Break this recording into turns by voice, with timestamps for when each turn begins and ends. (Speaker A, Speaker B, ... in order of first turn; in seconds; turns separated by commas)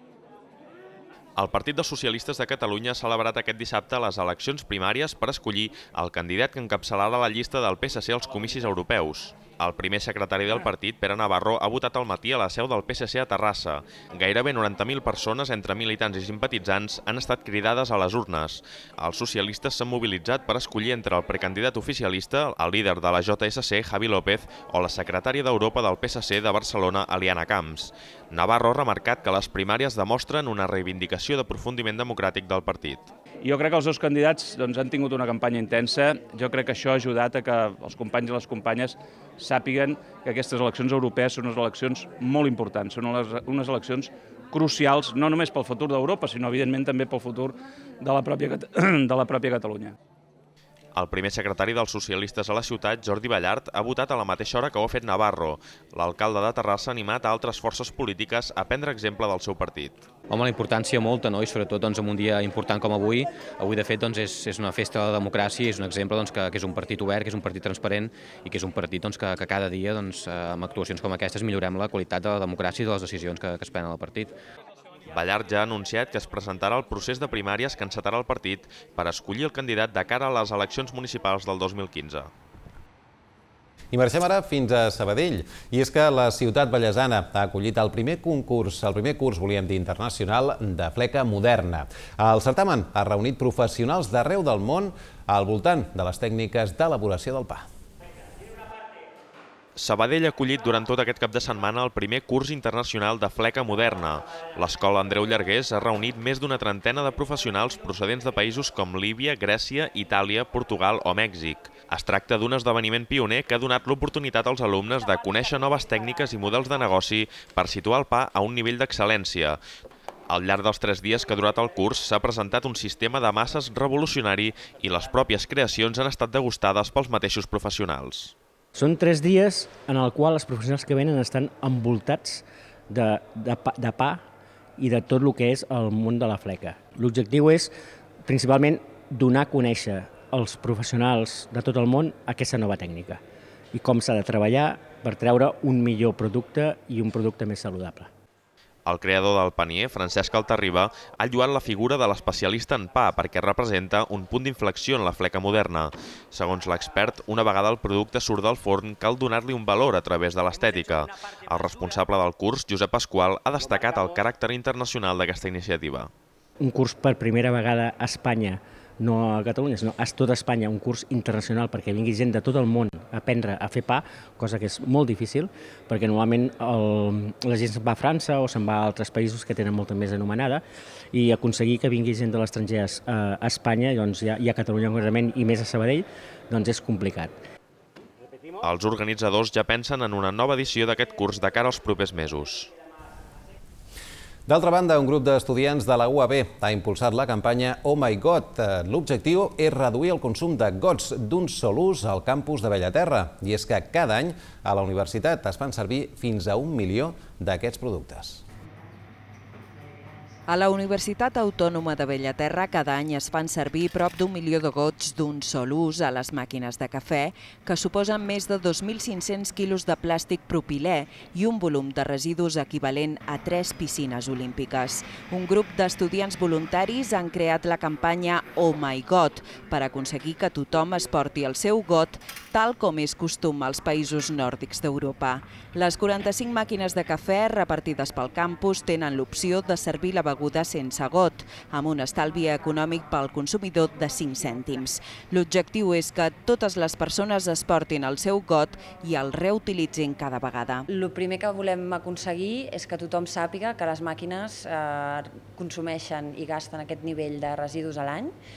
Speaker A: 1.4-33.1, Speaker B: 33.4-49.9, Speaker A: 50.9-60.1, Speaker C: 60.3-74.3, Speaker A: 75.1-82.3, Speaker D: 83.9-97.7, Speaker A: 99.8-119.6, Speaker A: 120.3-128.3, Speaker E: 128.7-134.2, Speaker E: 134.8-137.7, Speaker E: 138.2-143.2, Speaker E: 143.7-148.1, Speaker A: 148.8-166.1, Speaker E: 166.6-187.4, Speaker A: 188.6-192.7, Speaker D: 194.5-208.4, Speaker F: 210.5-250.8, Speaker G: 250.9-258.3